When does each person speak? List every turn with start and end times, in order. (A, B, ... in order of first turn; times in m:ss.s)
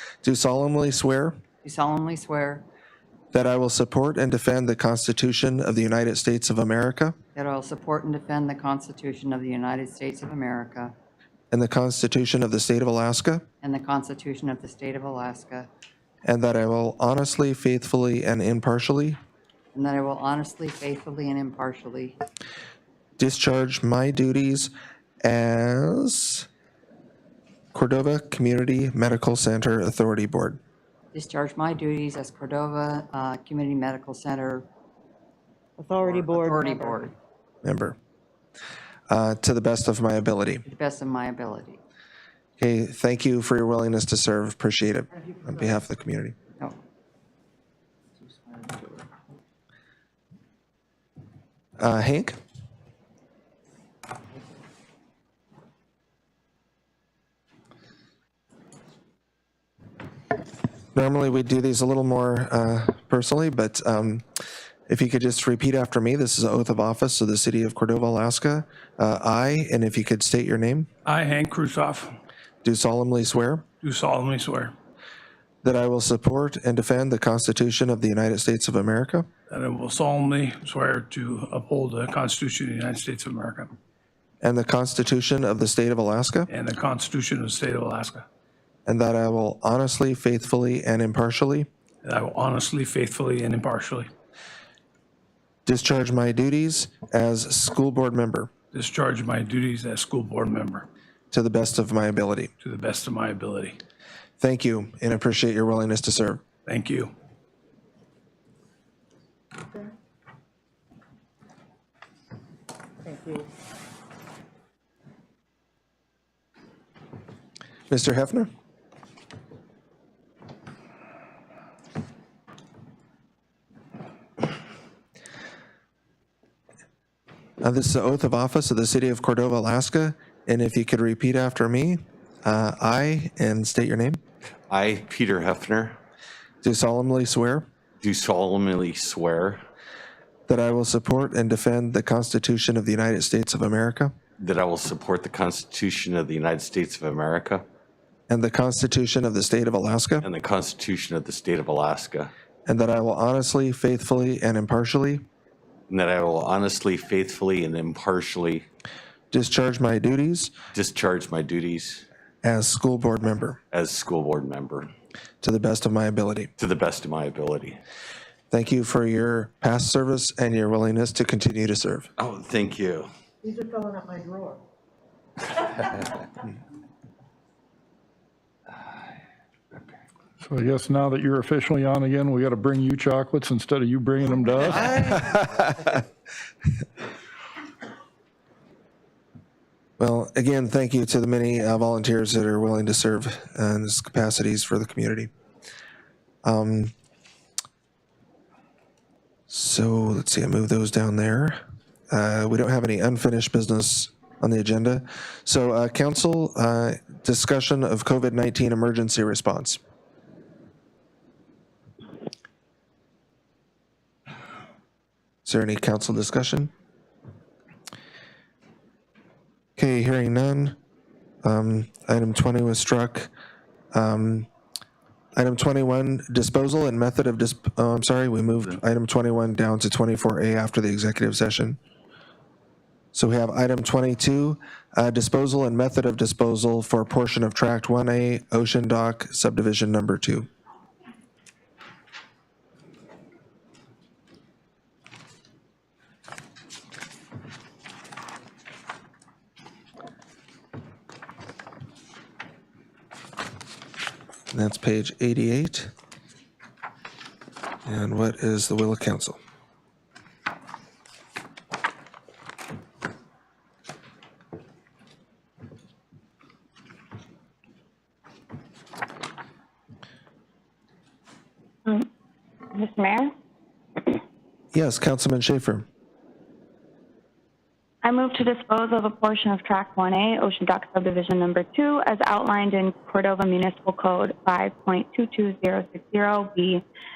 0:00.2-0:01.4 A
0:01.6-0:02.6 B
0:03.3-0:07.2 A
0:07.4-0:10.9 B
0:11.5-0:13.4 A
0:13.6-0:15.7 B
0:16.2-0:19.2 A
0:19.7-0:22.2 B
0:23.2-0:24.7 A
0:25.2-0:26.5 A
0:27.7-0:30.6 A
0:31.1-0:34.7 B
0:35.8-0:37.0 C
0:36.0-0:37.2 B
0:37.6-0:38.0 A
0:39.1-0:40.6 A
0:40.7-0:41.8 B
0:42.6-0:46.4 A
0:48.5-0:48.8 B
0:51.8-0:52.4 A
1:00.9-1:04.2 A
1:04.9-1:10.9 A
1:11.0-1:12.2 D
1:12.6-1:13.7 A
1:13.8-1:14.7 D
1:15.6-1:19.3 A
1:19.5-1:23.8 D
1:24.4-1:26.5 A
1:26.5-1:28.2 D
1:28.9-1:31.7 A
1:32.0-1:34.1 D
1:35.7-1:38.5 A
1:38.7-1:40.9 D
1:41.3-1:42.5 A
1:42.6-1:43.8 D
1:44.4-1:46.4 A
1:46.7-1:47.1 D
1:53.1-1:53.4 C
1:57.9-1:58.5 A
2:07.6-2:14.2 A
2:14.7-2:16.0 E
2:16.6-2:17.7 A
2:18.0-2:19.6 E
2:20.5-2:24.1 A
2:24.4-2:27.6 E
2:28.3-2:30.3 A
2:30.2-2:32.3 E
2:32.7-2:35.2 A
2:35.9-2:38.7 E
2:39.3-2:40.5 A
2:40.7-2:42.1 E
2:42.4-2:43.6 A
2:43.7-2:44.9 E
2:45.4-2:46.5 A
2:46.6-2:47.8 E
2:48.5-2:52.1 A
2:52.2-2:53.1 E
2:53.4-2:54.6 C
3:00.4-3:05.5 F
3:10.0-3:15.3 A
3:16.4-3:16.9 A
3:19.5-3:21.6 A
3:22.1-3:29.8 A
3:35.4-3:36.7 A
3:39.8-3:40.8 A
3:41.4-3:43.3 A
3:43.9-3:44.5 A
3:45.4-3:51.8 A
3:53.1-4:00.5 A
4:14.5-4:15.9 A
4:17.9-4:19.4 A
4:32.7-4:33.3 G
4:34.7-4:35.9 A
4:38.0-4:46.8 G